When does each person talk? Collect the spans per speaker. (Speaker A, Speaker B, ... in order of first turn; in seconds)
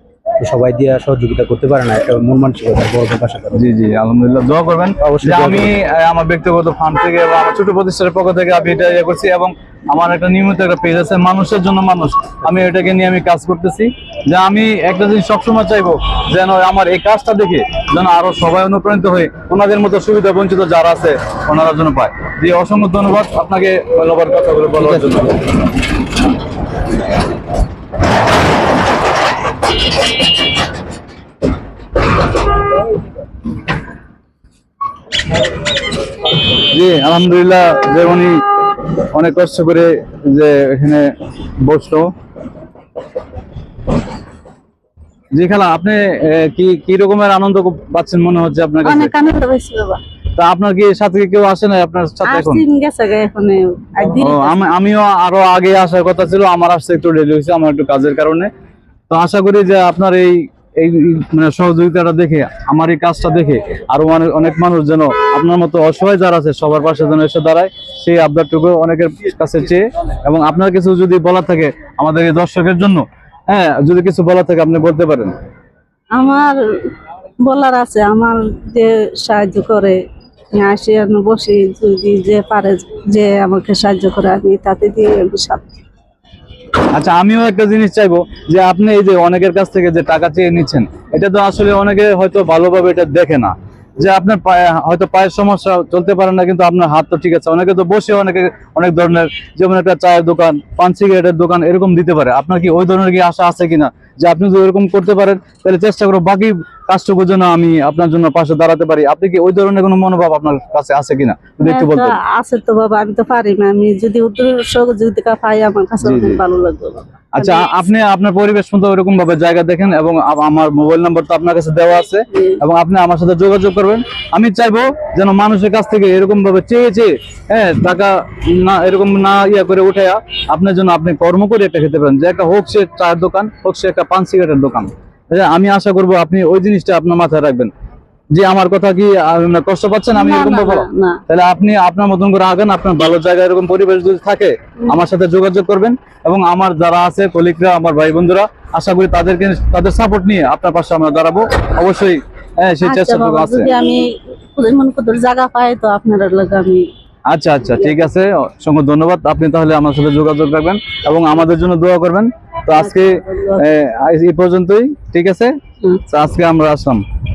Speaker A: 0.4-3.6, 5.0-5.7, 24.8-25.3
Speaker B: 3.5-25.4, 36.6-38.4, 39.0-42.1, 45.3-49.1, 50.4-52.6, 54.2-58.5, 59.1-75.3, 86.9-112.2, 116.0-116.4, 117.3-137.7, 138.3-153.7, 157.3-165.5, 166.1-167.0
Speaker C: 48.8-50.0, 52.2-54.6, 76.1-76.6, 77.4-80.0, 80.5-85.7, 111.6-117.7, 140.1-141.2, 152.8-156.9, 162.8-163.7